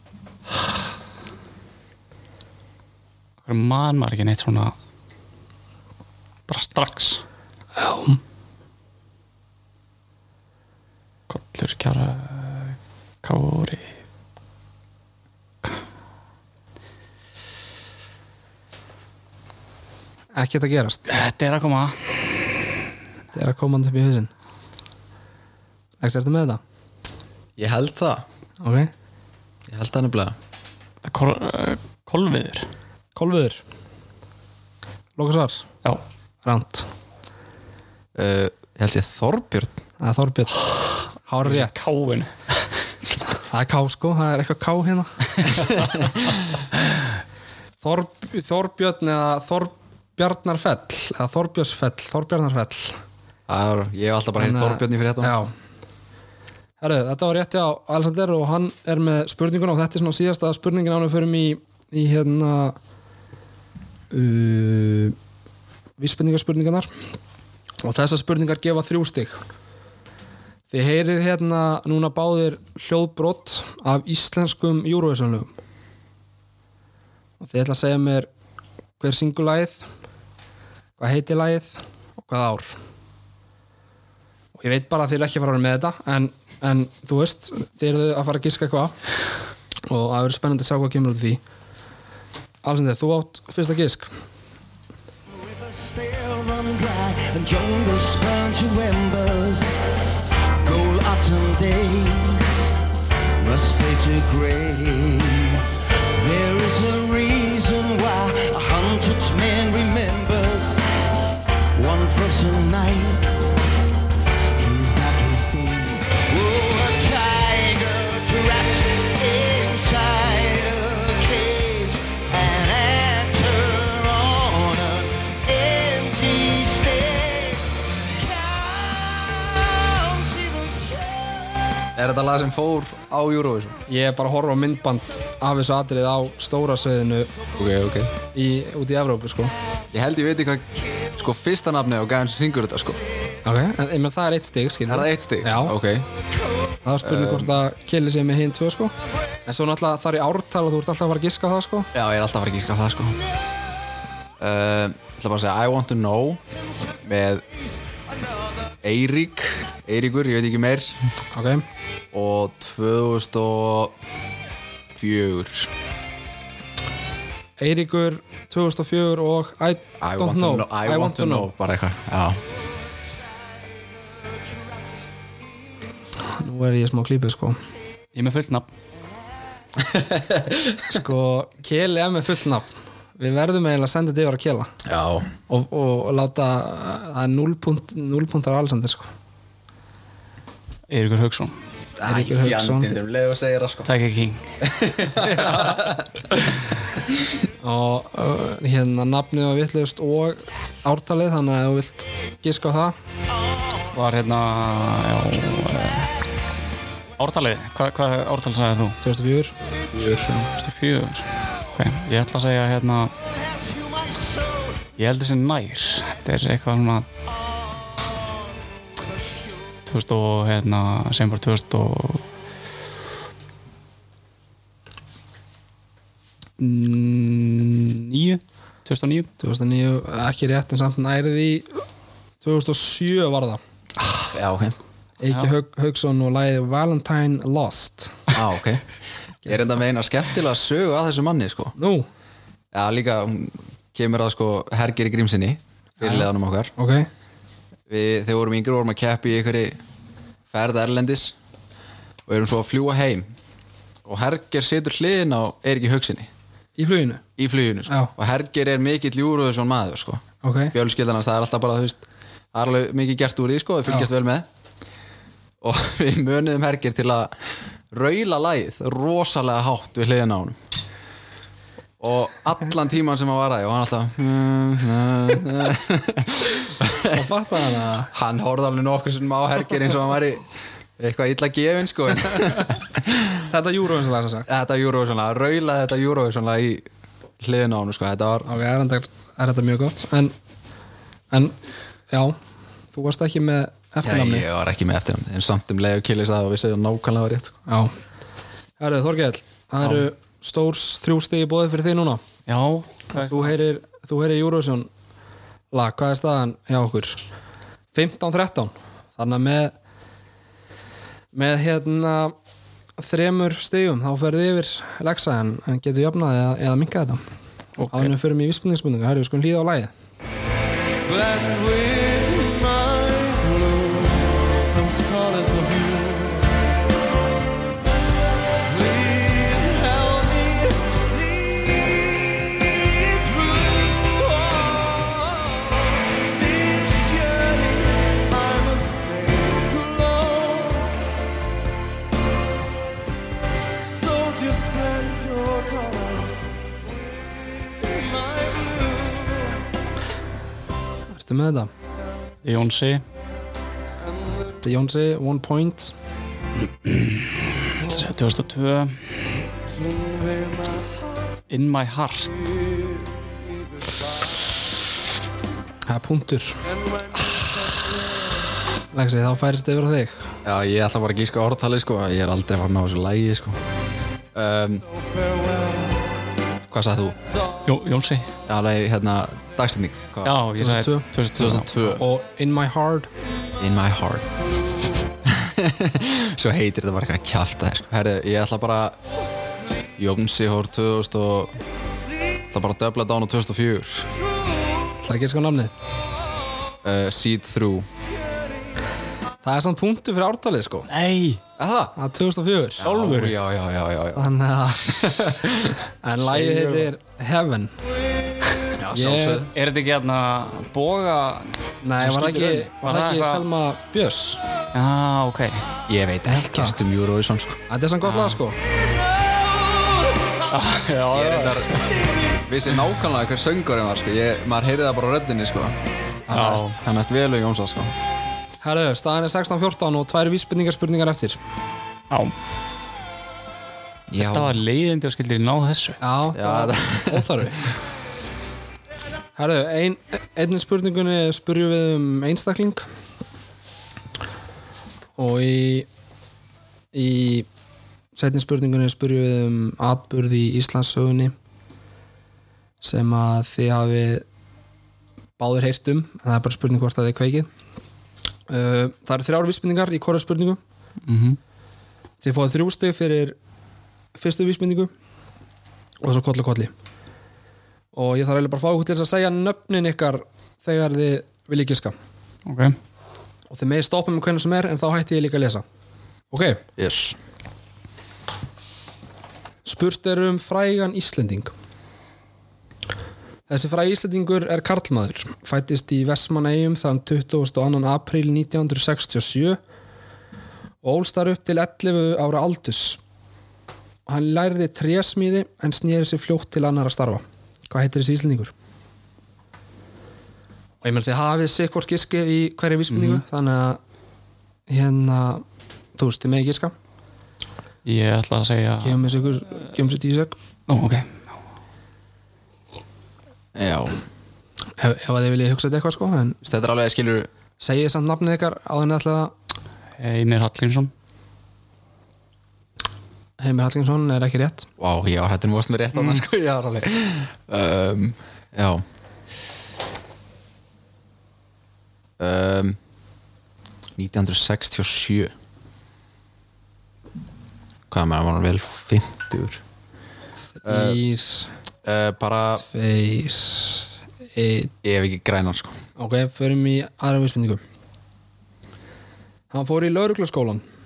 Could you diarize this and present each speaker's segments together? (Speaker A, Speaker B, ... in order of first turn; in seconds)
Speaker A: 3.4-4.7, 6.5-7.2, 11.3-13.9, 21.1-22.5, 31.0-32.7, 41.4-42.6, 178.1-178.7, 190.9-191.5, 193.8-194.4, 203.9-206.1, 207.2-209.0, 210.5-213.1, 215.0-217.1, 219.8-222.2, 226.6-229.3, 302.5-303.5, 317.8-318.1, 352.4-353.0, 356.8-359.2, 361.5-362.5, 377.6-378.3, 380.2-382.0, 400.9-401.4, 402.8-403.4, 406.2-406.9, 409.5-411.5, 412.0-413.4, 414.7-415.6, 418.0-418.4, 420.5-422.0, 426.3-426.8, 434.2-436.0, 461.1-461.4, 472.4-472.8, 502.9-503.2, 507.8-509.0, 510.7-511.2, 520.0-520.9
Speaker B: 7.8-8.2, 20.3-21.1, 23.3-24.3, 26.0-26.6, 28.6-28.9, 33.1-33.6, 35.2-35.7, 36.4-36.9, 40.0-41.8, 43.5-45.7, 47.8-53.0, 54.4-55.5, 56.8-62.8, 64.1-65.2, 66.0-66.9, 67.8-69.4, 70.7-75.5, 77.4-78.3, 79.0-79.8, 81.0-82.8, 84.5-88.9, 89.9-91.4, 92.6-94.1, 133.9-137.3, 138.3-139.5, 143.4-145.7, 146.8-148.9, 149.4-151.9, 161.3-161.7, 167.6-171.5, 176.4-177.6, 180.9-184.7, 185.5-189.1, 192.0-192.9, 195.2-195.8, 197.6-202.9, 209.0-209.5, 229.4-231.8, 232.4-233.6, 235.2-238.2, 241.8-242.1, 246.0-247.1, 256.8-257.2, 257.9-258.1, 260.4-260.7, 277.1-278.1, 283.5-284.5, 288.4-290.3, 292.1-292.4, 292.9-294.5, 297.7-297.9, 298.8-302.2, 303.1-304.9, 305.7-307.2, 307.9-309.7, 311.3-312.3, 313.0-317.2, 317.9-319.9, 351.1-351.7, 354.6-355.9, 365.9-366.6, 368.9-370.3, 380.6-381.1, 382.0-383.1, 395.0-395.7, 399.4-400.9, 401.9-402.8, 404.1-405.4, 406.0-407.7, 408.9-409.5, 411.8-414.4, 416.2-416.8, 417.7-418.6, 426.3-426.6, 428.6-431.4, 436.0-437.7, 439.4-442.8, 445.2-445.9, 446.9-447.5, 448.1-451.3, 452.8-454.2, 455.4-457.5, 458.5-460.6, 462.2-463.4, 464.1-464.9, 466.0-466.7, 467.9-471.9, 473.5-475.6, 476.3-476.6, 479.6-481.5, 483.5-489.6, 490.8-493.0, 494.1-498.5, 500.8-503.8, 504.7-505.4, 505.9-506.7, 508.8-510.4, 514.8-516.4, 517.6-519.3, 523.4-524.7, 540.6-541.5, 542.6-544.7, 546.0-547.6, 549.5-550.6
Speaker C: 27.6-28.2, 29.7-30.3, 38.1-39.7, 53.5-55.3, 131.9-133.8, 137.6-138.1, 139.9-143.0, 144.9-146.1, 147.0-147.5, 151.9-153.2, 154.4-156.4, 157.0-157.4, 158.8-161.0, 162.1-163.9, 164.9-165.7, 170.0-172.4, 179.8-181.0, 184.8-185.3, 192.0-193.9, 194.6-196.1, 209.9-210.4, 234.3-234.8, 238.3-238.8, 239.4-241.8, 242.7-246.7, 247.9-249.8, 250.5-251.3, 252.3-253.3, 254.0-256.3, 257.4-264.5, 265.6-267.3, 267.9-270.6, 272.0-277.2, 278.1-280.4, 281.0-283.4, 284.5-286.9, 287.4-288.5, 294.0-297.6, 370.4-373.6, 374.3-374.8, 376.7-377.2, 378.5-380.4, 381.3-382.0, 383.6-384.3, 385.2-389.0, 390.0-391.6, 392.5-394.1, 396.8-397.9, 401.6-401.9, 402.8-404.3, 404.9-405.8, 408.8-409.5, 415.9-417.6, 421.1-421.8, 422.5-425.8, 426.6-427.9, 434.1-434.6, 436.3-437.3, 476.8-477.2, 513.5-514.0, 516.4-517.3, 524.8-528.8, 532.2-532.8, 534.0-535.3, 537.9-539.6, 540.6-541.0, 541.8-542.6, 544.8-545.8
Speaker D: 95.3-99.8, 100.6-102.8, 103.4-105.6, 106.2-110.9, 111.8-113.5, 114.5-131.6, 213.4-214.7, 321.1-326.5, 328.7-341.0, 343.9-346.5, 347.6-349.5